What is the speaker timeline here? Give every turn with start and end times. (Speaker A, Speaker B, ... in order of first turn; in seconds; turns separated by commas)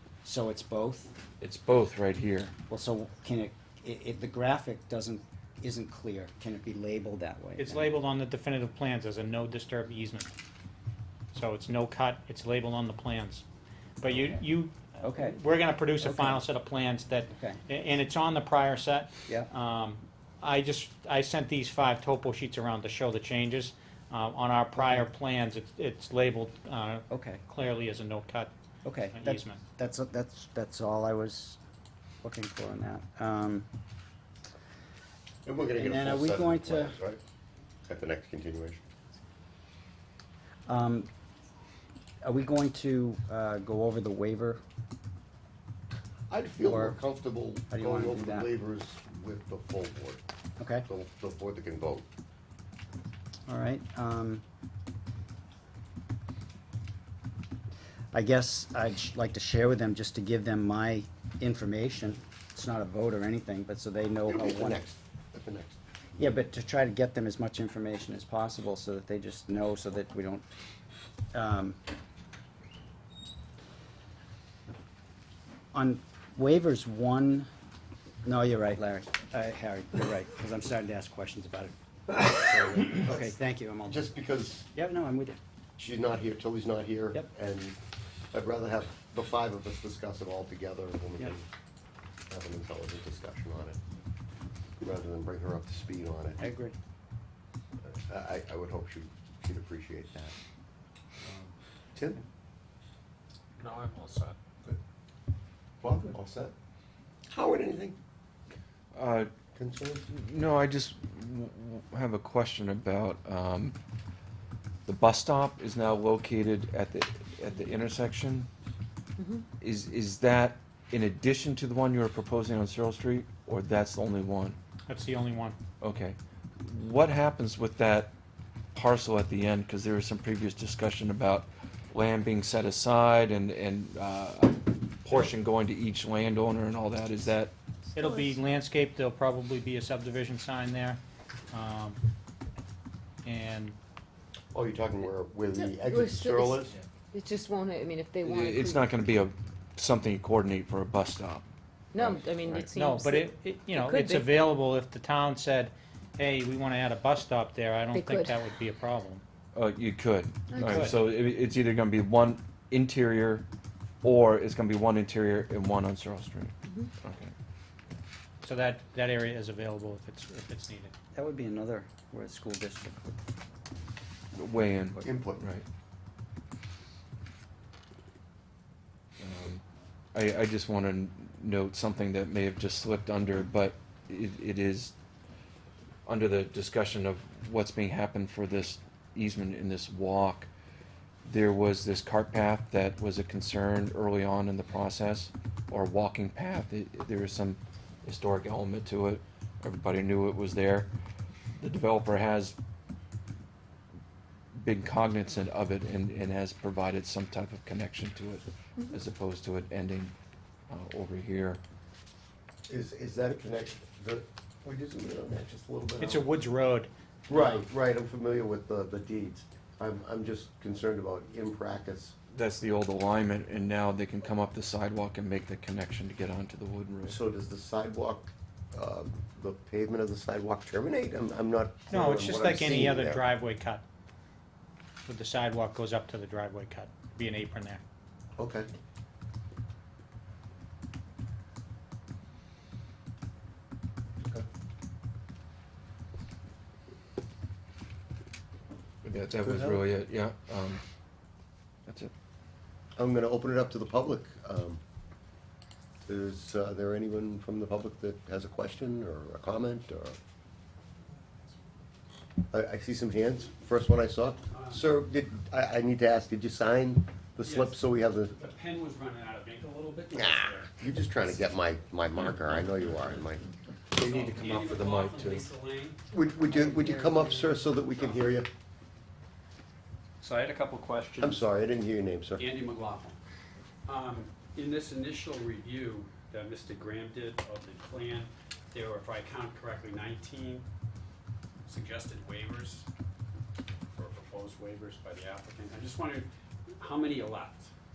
Speaker A: 0.2-1.1, Speaker B: 1.4-2.5, Speaker A: 2.7-8.0, Speaker C: 7.5-10.3, Speaker C: 11.3-13.4, Speaker C: 14.0-28.5, Speaker A: 14.1-14.4, Speaker A: 15.0-15.4, Speaker A: 15.9-16.4, Speaker A: 17.3-17.6, Speaker A: 24.7-25.1, Speaker A: 27.1-27.4, Speaker A: 28.8-31.6, Speaker C: 29.1-29.6, Speaker A: 32.2-33.7, Speaker D: 35.4-37.2, Speaker A: 35.8-37.0, Speaker D: 37.9-38.8, Speaker A: 40.7-41.1, Speaker A: 42.2-44.6, Speaker D: 46.3-50.2, Speaker A: 46.6-47.0, Speaker A: 47.7-48.5, Speaker A: 50.6-50.9, Speaker D: 50.9-52.0, Speaker A: 53.5-54.4, Speaker A: 58.1-64.8, Speaker D: 64.3-65.8, Speaker A: 66.2-70.5, Speaker A: 71.3-71.8, Speaker A: 75.7-77.5, Speaker A: 78.2-84.1, Speaker D: 82.8-83.3, Speaker D: 83.9-84.7, Speaker A: 84.7-85.4, Speaker D: 85.8-87.8, Speaker D: 88.3-91.5, Speaker D: 92.3-93.8, Speaker D: 94.8-96.4, Speaker A: 96.4-96.8, Speaker D: 97.8-100.3, Speaker D: 101.9-102.2, Speaker E: 103.6-104.4, Speaker D: 105.8-106.5, Speaker D: 107.3-108.0, Speaker B: 108.9-109.3, Speaker D: 109.5-110.0, Speaker B: 110.1-113.8, Speaker B: 114.8-118.5, Speaker F: 119.2-119.4, Speaker B: 119.6-124.6, Speaker C: 124.9-125.6, Speaker B: 125.8-128.1, Speaker B: 128.7-137.5, Speaker C: 137.9-142.0, Speaker F: 138.0-138.3, Speaker C: 143.2-143.8, Speaker D: 144.5-146.7, Speaker F: 145.5-146.6, Speaker F: 147.1-149.0, Speaker B: 148.2-151.4, Speaker F: 151.9-154.4, Speaker B: 152.0-152.7, Speaker C: 152.7-159.2, Speaker F: 157.9-158.4, Speaker B: 159.5-163.4, Speaker C: 160.6-160.9, Speaker B: 164.0-167.3, Speaker C: 168.4-170.9, Speaker A: 171.1-173.1, Speaker B: 174.3-175.6, Speaker D: 175.0-175.5, Speaker B: 179.2-179.6, Speaker B: 180.1-184.9, Speaker B: 186.1-190.5, Speaker B: 191.2-200.9, Speaker B: 201.6-202.6, Speaker B: 204.5-210.1, Speaker B: 210.7-211.6, Speaker D: 212.7-216.2, Speaker C: 216.0-217.6, Speaker D: 217.3-222.2, Speaker B: 222.3-227.2, Speaker D: 227.1-233.2, Speaker C: 231.9-233.8, Speaker C: 235.1-237.8, Speaker D: 238.4-238.7, Speaker D: 244.2-244.4, Speaker B: 249.0-250.8, Speaker D: 249.4-249.9, Speaker B: 251.9-252.1, Speaker D: 252.9-254.8, Speaker D: 256.1-260.2, Speaker D: 262.5-268.3, Speaker E: 264.5-264.8, Speaker E: 267.4-267.7, Speaker E: 268.4-270.7, Speaker D: 270.1-273.4, Speaker B: 273.9-275.4, Speaker E: 274.0-278.4, Speaker D: 276.1-278.5, Speaker E: 280.2-281.4, Speaker D: 281.2-282.5, Speaker E: 282.4-283.2, Speaker E: 283.9-290.6, Speaker E: 291.7-292.9, Speaker E: 294.0-296.3, Speaker E: 296.8-297.7